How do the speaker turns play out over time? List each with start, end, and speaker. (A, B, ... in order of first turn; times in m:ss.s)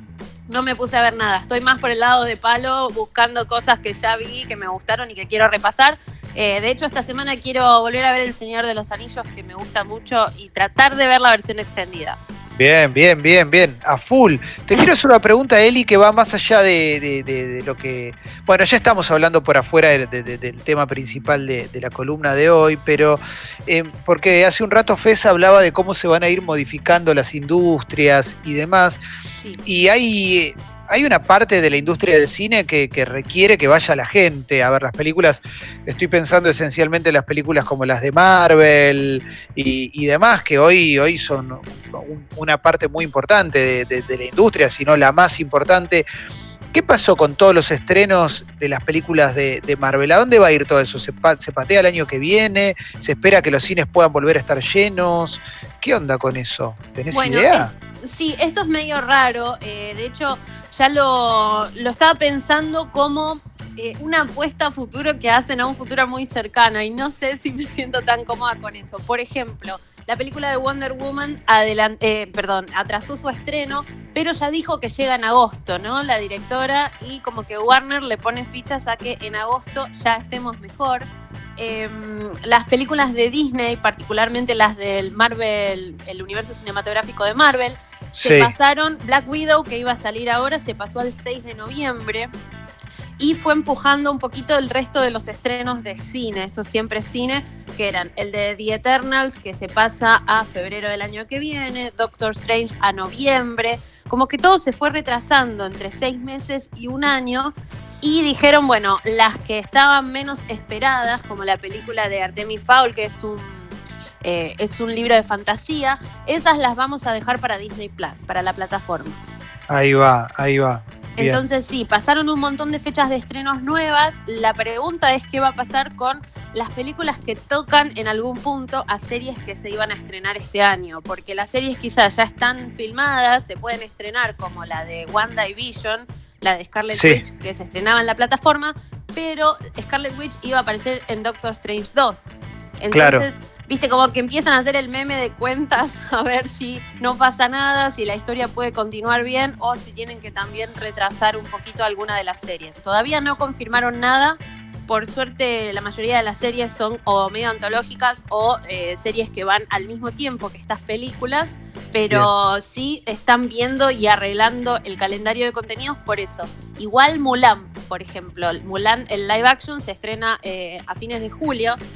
0:00.5-0:12.2 A
0:12.6-0:29.0 B
0:29.3-0:29.6 A
0:29.6-0:46.0 B
0:46.7-0:57.7 B
0:57.1-1:32.3 A
1:28.2-1:28.5 B
1:33.2-1:59.2 A
1:59.7-2:01.4 B
2:01.2-2:51.8 A
2:16.9-2:17.2 B
2:22.9-2:23.3 B